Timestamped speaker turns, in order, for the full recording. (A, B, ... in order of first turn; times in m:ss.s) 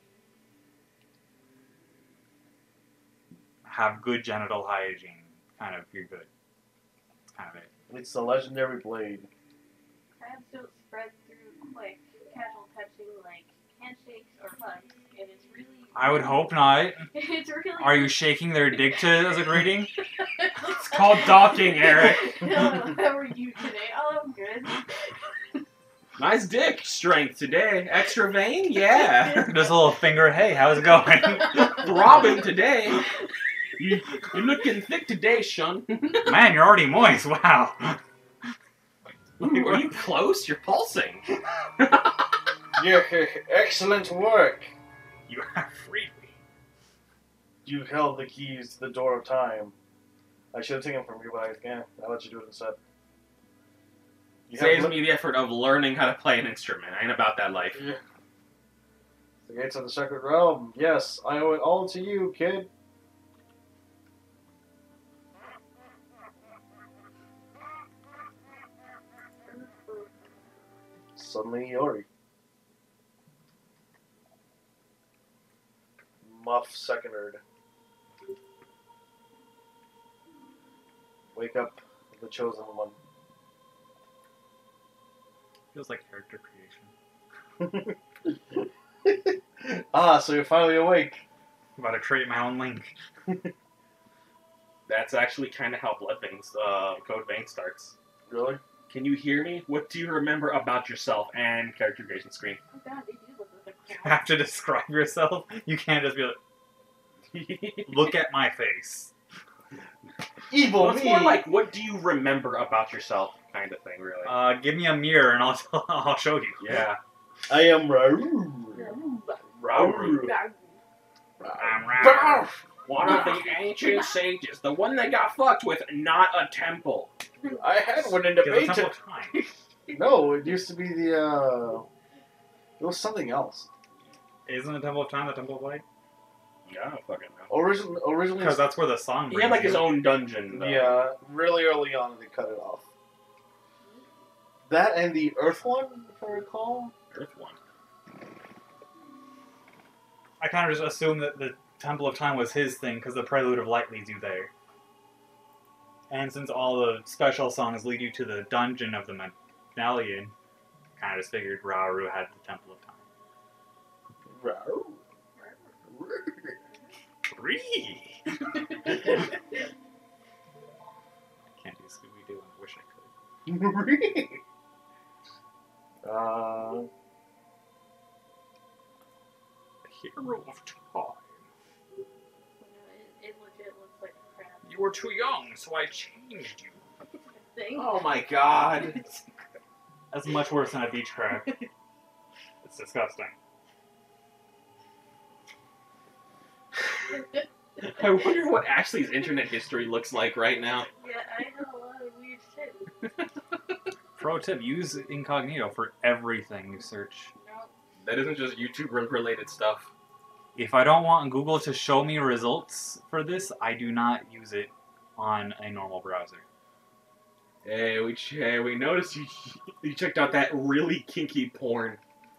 0:03.6-0:06.3 A
0:07.3-0:07.7 A
0:07.9-0:09.3 B
0:10.2-0:16.5 C
0:15.9-0:17.1 A
0:17.1-0:18.3 C
0:17.8-0:19.9 A
0:20.2-0:24.9 C
0:20.8-0:22.4 D
0:26.2-0:29.7 D
0:29.3-0:29.6 C
0:29.4-0:31.8 A
0:31.5-0:33.0 D
0:33.8-0:36.4 D
0:36.2-0:38.0 A
0:39.4-0:39.9 A
0:39.4-0:41.2 D
0:41.8-0:42.2 D
0:42.8-0:44.7 B
0:45.3-0:46.4 A
0:47.6-0:49.7 B
0:50.5-0:52.8 B
0:54.5-0:55.1 B
0:54.5-0:57.9 D
0:59.4-1:02.7 B
1:09.4-1:10.5 C
1:11.1-1:12.0 B
1:16.2-1:17.4 B
1:21.3-1:22.9 B
1:25.7-1:26.9 A
1:27.6-1:31.2 B
1:31.8-1:32.9 A
1:34.9-1:37.9 D
1:38.3-1:38.6 B
1:38.9-1:42.6 D
1:42.7-1:44.3 C
1:43.9-1:46.4 A
1:47.3-1:48.1 D
1:47.8-1:49.1 A
1:50.5-1:51.4 B
1:50.6-1:54.4 D
1:54.2-1:56.8 A
1:56.6-1:57.0 D
1:57.5-1:59.0 B
1:58.7-2:00.8 C
1:59.6-2:00.3 D
1:59.7-2:00.3 B
2:01.4-2:02.6 B
2:01.6-2:02.5 A
2:02.8-2:07.1 D
2:03.0-2:04.2 C
2:07.4-2:07.7 C
2:07.5-2:08.9 B
2:08.3-2:09.3 A
2:09.3-2:10.3 C
2:09.9-2:11.9 B
2:12.8-2:13.7 B
2:14.4-2:15.8 A
2:16.6-2:17.5 D
2:17.5-2:18.6 B
2:18.4-2:20.0 A
2:19.3-2:21.0 D
2:20.5-2:22.8 B
2:23.8-2:24.1 C
2:24.7-2:26.9 B
2:27.1-2:27.6 D
2:30.4-2:34.5 A
2:36.1-2:40.3 A
2:41.0-2:43.0 A
2:44.3-2:45.0 B
2:45.4-2:45.9 C
2:45.9-2:46.6 B
2:46.6-2:46.9 C
2:47.3-2:48.2 A
2:51.4-2:53.1 A
2:53.4-2:54.4 B
2:56.0-2:56.9 B
2:59.8-3:01.2 D
3:02.6-3:05.0 C
3:04.6-3:06.8 A
3:07.3-3:09.2 C
3:07.7-3:09.0 D
3:10.1-3:11.6 A
3:12.6-3:13.3 A
3:17.8-3:20.9 D
3:21.0-3:23.0 C
3:24.2-3:27.3 A
3:27.3-3:27.7 C
3:28.0-3:29.9 D
3:30.5-3:36.4 A
3:37.6-3:42.0 D